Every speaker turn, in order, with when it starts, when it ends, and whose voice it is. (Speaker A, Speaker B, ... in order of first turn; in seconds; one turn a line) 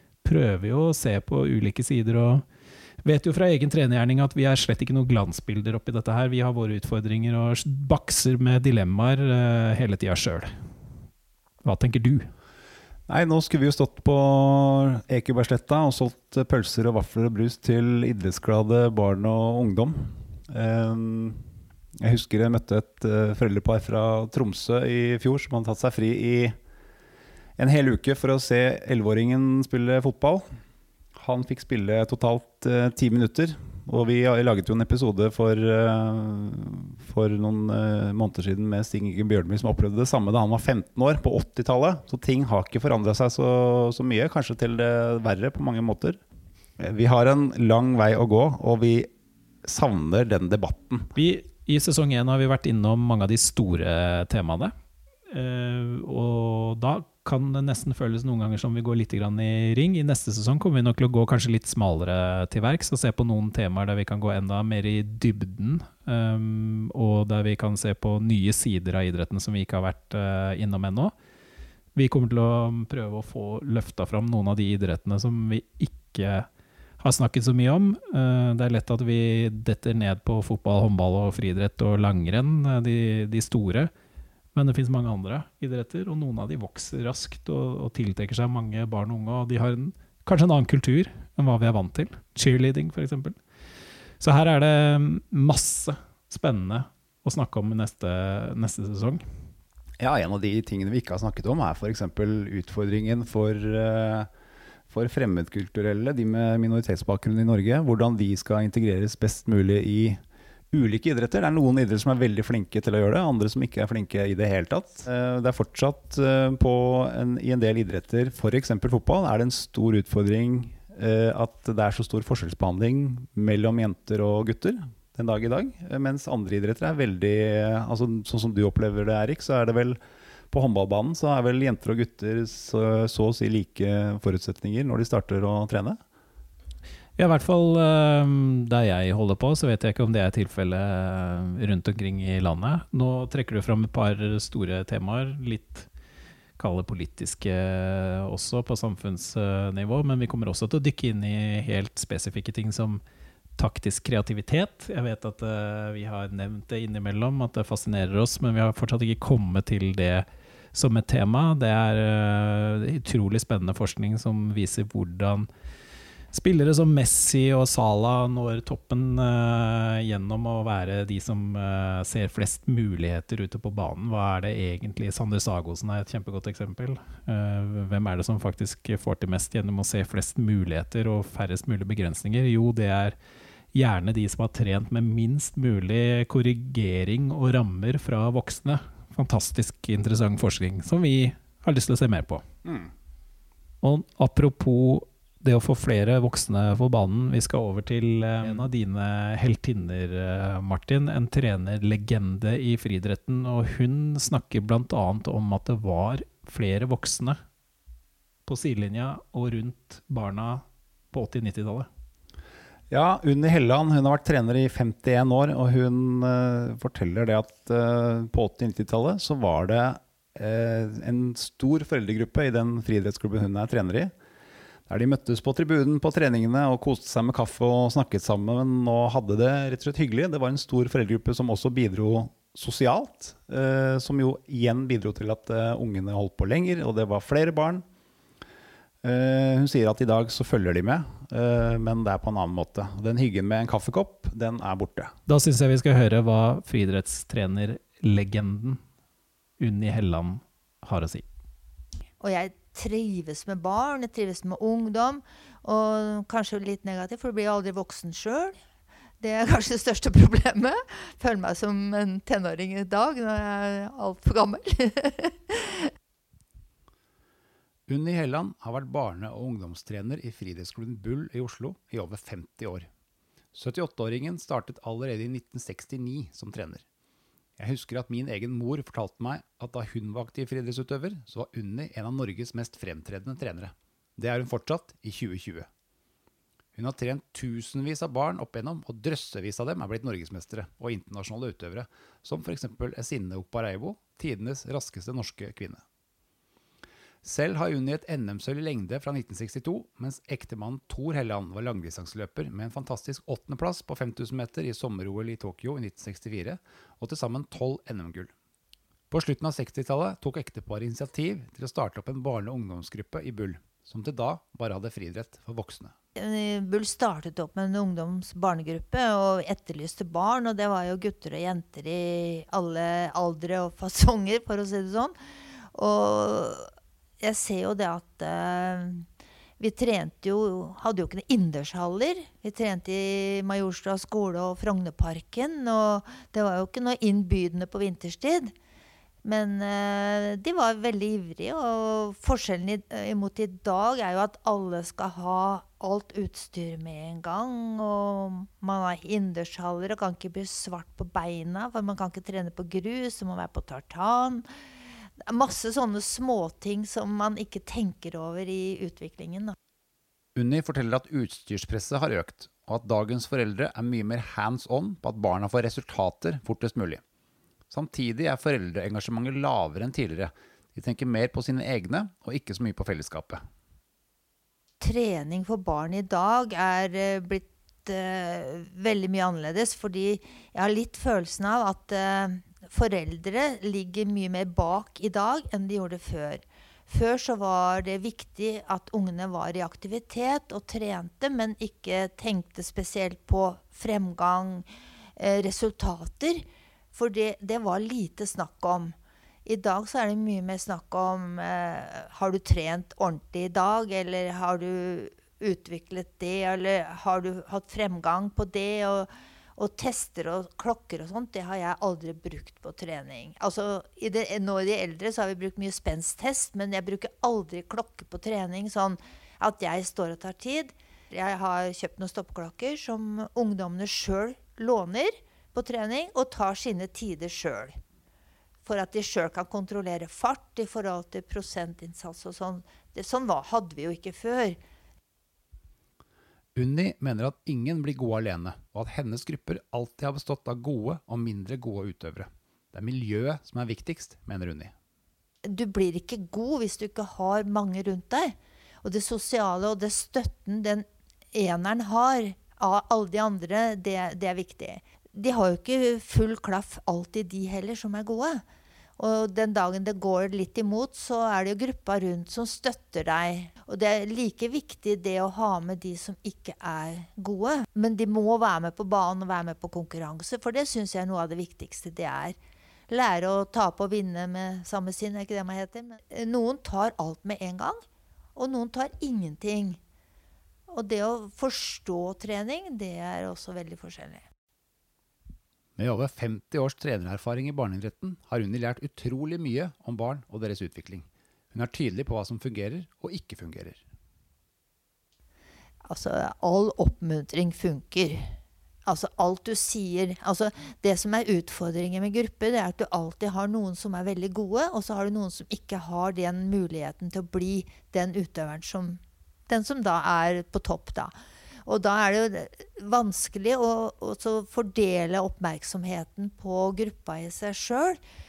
Speaker A: 0.2-2.4
Speaker A: 3.0-10.5
Speaker A: 11.6-12.3
Speaker B: 13.1-21.4
Speaker B: 22.0-26.6
Speaker B: 27.6-30.4
Speaker B: 31.1-46.2
Speaker B: 46.8-49.1
Speaker B: 49.6-51.1
Speaker A: 51.1-54.7
Speaker A: 55.3-71.1
Speaker A: 72.0-76.5
Speaker A: 77.0-83.9
Speaker A: 84.5-93.4
Speaker A: 94.2-99.2
Speaker B: 100.0-104.3
Speaker B: 104.9-110.2
Speaker B: 110.7-130.0
Speaker B: 130.5-136.0
Speaker A: 137.2-145.9
Speaker A: 146.6-153.0
Speaker A: 153.6-165.5
Speaker A: 166.3-183.1
Speaker A: 183.7-192.4
Speaker B: 192.6-192.9
Speaker A: 193.8-207.4
Speaker B: 198.4-198.7
Speaker A: 208.4-211.9
Speaker B: 212.9-224.1
Speaker B: 224.9-237.8
Speaker B: 239.0-245.1
Speaker A: 245.3-248.8
Speaker A: 249.6-251.2
Speaker C: 252.2-258.6
Speaker C: 259.2-265.9
Speaker B: 267.9-272.9
Speaker B: 273.5-276.8
Speaker B: 277.6-285.7
Speaker B: 286.8-295.8
Speaker B: 297.2-308.3
Speaker B: 309.1-315.9
Speaker C: 316.2-325.1
Speaker C: 325.7-326.7
Speaker C: 327.2-329.1
Speaker C: 329.6-338.5
Speaker C: 339.2-354.4
Speaker C: 355.3-359.6
Speaker B: 360.3-367.0
Speaker B: 367.7-373.4
Speaker C: 374.8-427.8
Speaker C: 428.6-434.6
Speaker B: 436.5-444.7
Speaker C: 445.4-458.4
Speaker C: 459.0-472.4
Speaker C: 472.9-477.8
Speaker C: 478.4-479.8
Speaker C: 480.7-484.2
Speaker B: 485.8-493.8
Speaker C: 495.8-498.3
Speaker C: 498.9-511.1
Speaker C: 511.6-518.0